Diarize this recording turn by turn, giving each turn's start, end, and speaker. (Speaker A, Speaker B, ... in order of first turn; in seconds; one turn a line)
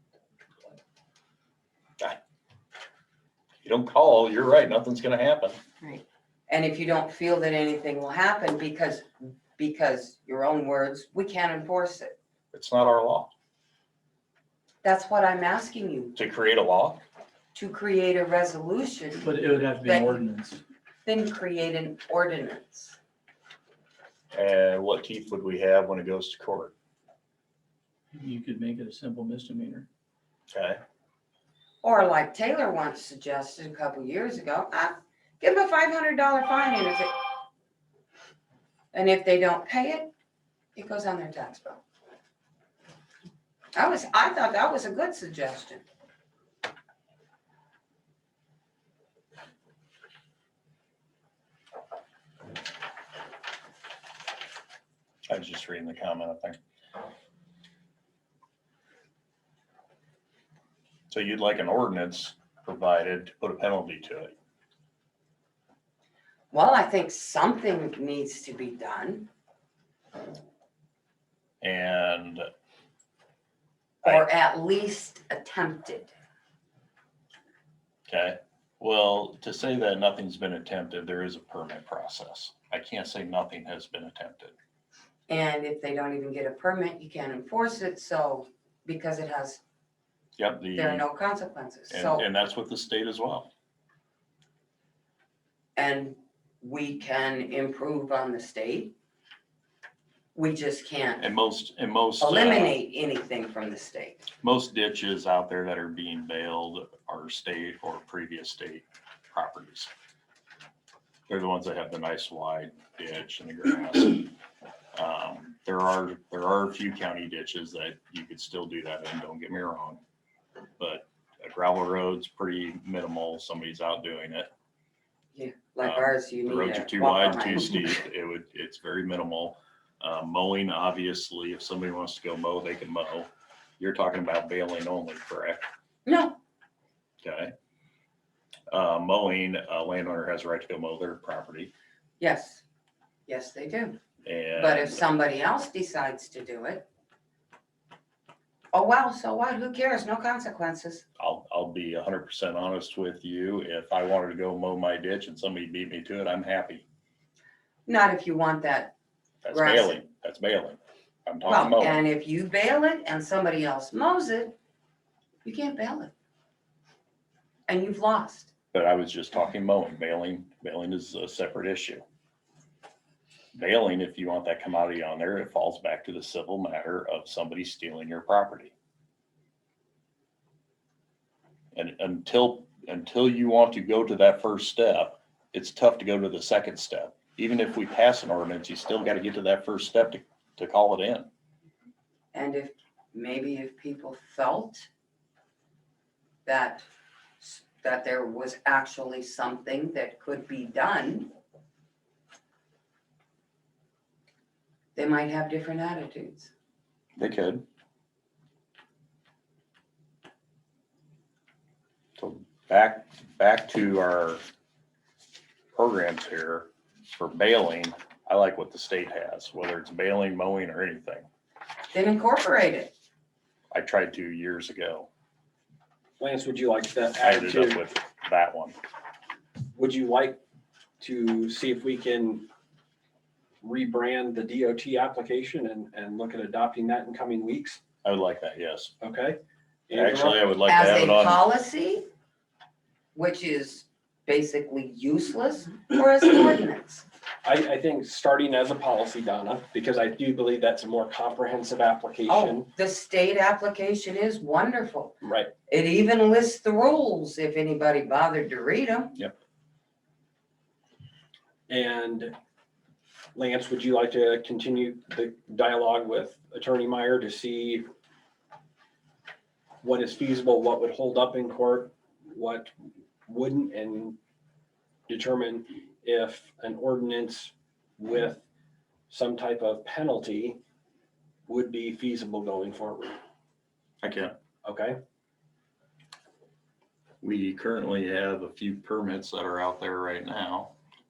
Speaker A: 3.6-5.6
Speaker B: 6.5-12.1
Speaker A: 12.5-13.3
Speaker B: 14.8-16.1
Speaker A: 16.1-17.0
Speaker B: 17.5-20.2
Speaker C: 19.2-20.6
Speaker B: 21.0-23.0
Speaker A: 24.3-26.7
Speaker C: 28.1-29.9
Speaker A: 30.5-30.8
Speaker B: 31.8-37.1
Speaker B: 38.9-40.1
Speaker B: 40.7-41.8
Speaker B: 43.7-45.8
Speaker A: 55.3-56.6
Speaker A: 61.1-64.3
Speaker B: 66.5-69.3
Speaker A: 71.6-72.4
Speaker B: 74.0-76.1
Speaker A: 78.1-84.5
Speaker B: 85.3-89.6
Speaker A: 90.4-91.0
Speaker B: 90.8-92.2
Speaker A: 91.9-93.5
Speaker B: 95.8-98.9
Speaker B: 100.3-101.2
Speaker A: 101.2-102.7
Speaker B: 102.2-104.2
Speaker A: 104.4-109.9
Speaker A: 111.3-114.3
Speaker A: 114.9-120.0
Speaker A: 120.8-124.5
Speaker B: 125.3-128.0
Speaker A: 125.8-135.6
Speaker B: 136.1-136.4
Speaker A: 137.2-137.5
Speaker A: 138.7-141.7
Speaker B: 142.2-142.6
Speaker B: 143.3-144.0
Speaker A: 144.2-145.0
Speaker B: 144.5-146.8
Speaker B: 148.7-151.0
Speaker A: 151.2-156.8
Speaker B: 157.8-158.9
Speaker A: 159.4-162.0
Speaker B: 159.5-159.9
Speaker B: 161.4-164.6
Speaker B: 165.4-166.1
Speaker B: 167.7-168.5
Speaker A: 168.7-172.0
Speaker A: 173.5-178.7
Speaker A: 181.7-191.3
Speaker B: 192.3-194.9
Speaker B: 196.4-196.9
Speaker B: 197.4-201.3
Speaker B: 204.9-206.5
Speaker A: 207.2-207.6
Speaker A: 212.2-214.4
Speaker A: 215.7-221.2
Speaker B: 221.9-222.9
Speaker A: 223.7-225.1
Speaker D: 226.2-227.8
Speaker A: 227.2-228.7
Speaker D: 229.7-230.4
Speaker D: 231.0-232.4
Speaker D: 233.6-237.8
Speaker A: 238.0-238.9
Speaker D: 239.0-239.4
Speaker D: 239.9-240.5
Speaker A: 239.9-241.4
Speaker B: 240.6-242.1
Speaker B: 243.1-247.0
Speaker D: 247.4-252.7
Speaker B: 252.3-255.1
Speaker D: 255.2-255.5
Speaker B: 255.7-259.2
Speaker D: 261.7-262.3
Speaker D: 263.3-267.8
Speaker D: 269.8-272.7
Speaker D: 273.3-274.2
Speaker D: 275.1-278.4
Speaker D: 279.1-280.6
Speaker D: 281.5-283.2
Speaker A: 284.0-284.3
Speaker D: 284.6-285.0
Speaker A: 287.2-290.7